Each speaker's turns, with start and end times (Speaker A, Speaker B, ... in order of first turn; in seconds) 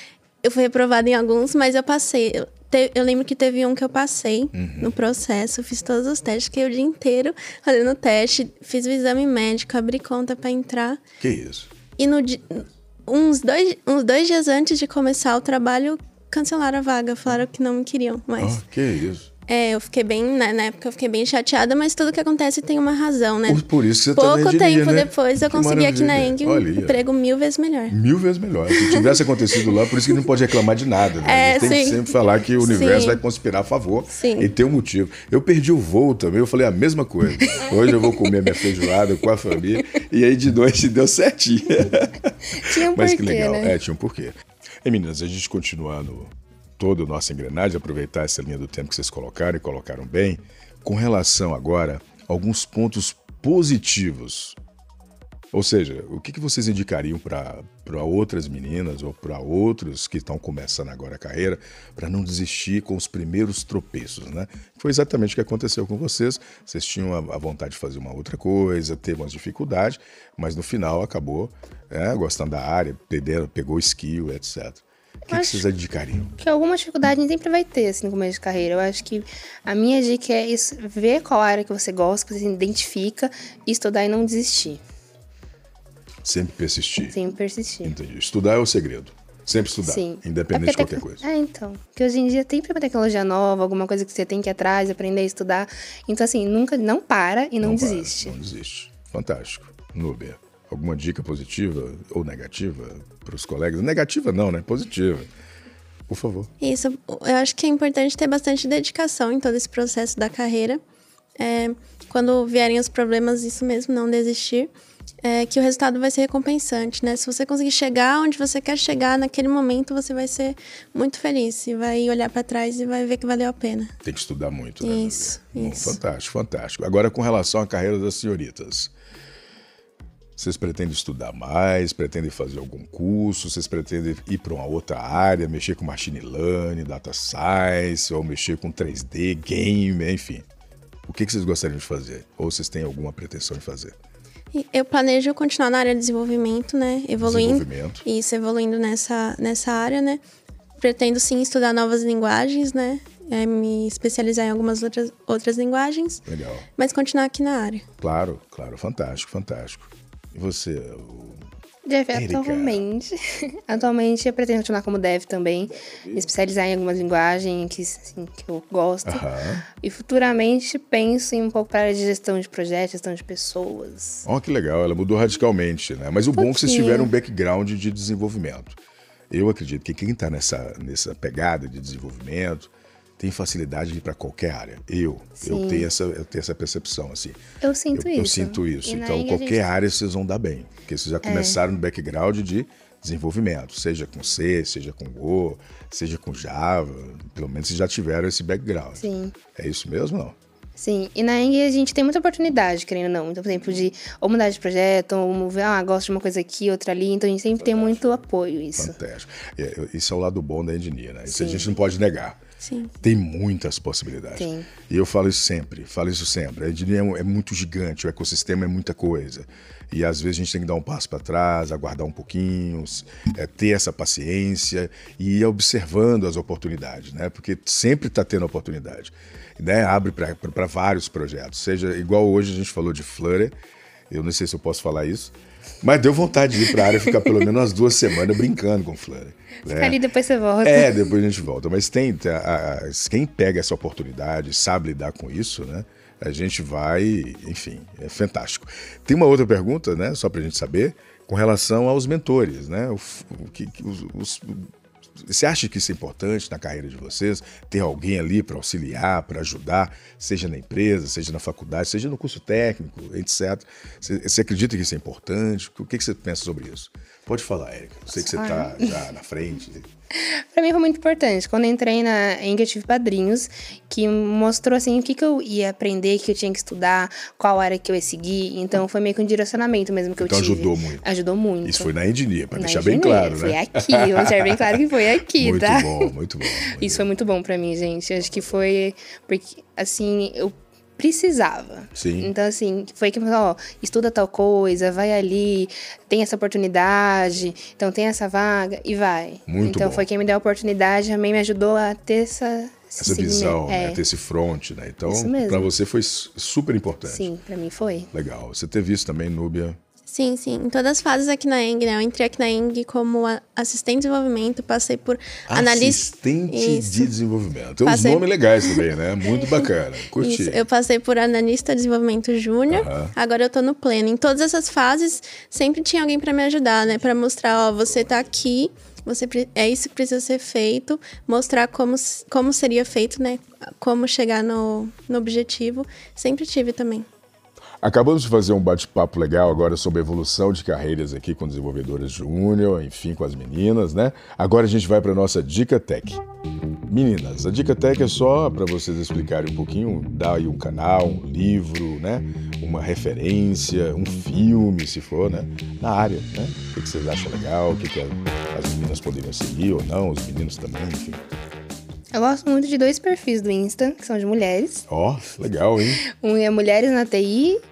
Speaker A: 0.4-11.0, 12.0-18.6, 19.5-28.0, 28.7-29.8, 31.2-33.2, 34.1-34.5, 106.6-110.8, 111.4-114.7, 115.2-123.9, 124.8-126.0, 144.5-150.2, 150.8-156.2, 156.8-157.8, 212.6-212.9, 310.1-317.1, 317.8-318.8, 320.2-337.1
Speaker B: 4.5-5.0, 11.2-11.7, 18.4-19.3, 23.5-27.0, 27.9-54.6, 55.5-76.3, 86.2-87.2, 87.8-91.2, 97.6-105.3, 106.1-106.5, 124.0-128.9, 130.3-140.4, 141.1-143.9, 147.2-148.0, 156.2-156.7, 158.0-161.4, 162.1-162.8, 169.0-169.7, 174.2-178.8, 179.3-187.4, 187.9-200.3, 208.8-212.4, 213.0-233.5, 234.1-240.0, 240.6-269.9, 280.2-281.0, 281.6-287.1, 291.9-292.3, 299.5-300.1, 303.0-307.3, 308.1-309.8, 315.5-320.6, 322.7-323.1, 337.8-346.2, 346.9-361.2, 364.9-366.0
Speaker C: 37.5-38.3, 42.5-43.8, 75.3-75.6, 76.4-84.8, 87.1-87.9, 89.8-98.3, 161.8-174.2, 176.4-177.1, 185.4-185.9, 187.6-189.7, 191.2-191.6, 199.0-199.3, 200.8-208.9, 211.2-211.7, 214.3-214.7, 239.7-240.9, 268.1-269.0, 270.1-281.9, 282.5-286.1, 286.7-304.0, 305.1-305.7, 307.1-308.1, 362.1-364.9, 366.0-367.6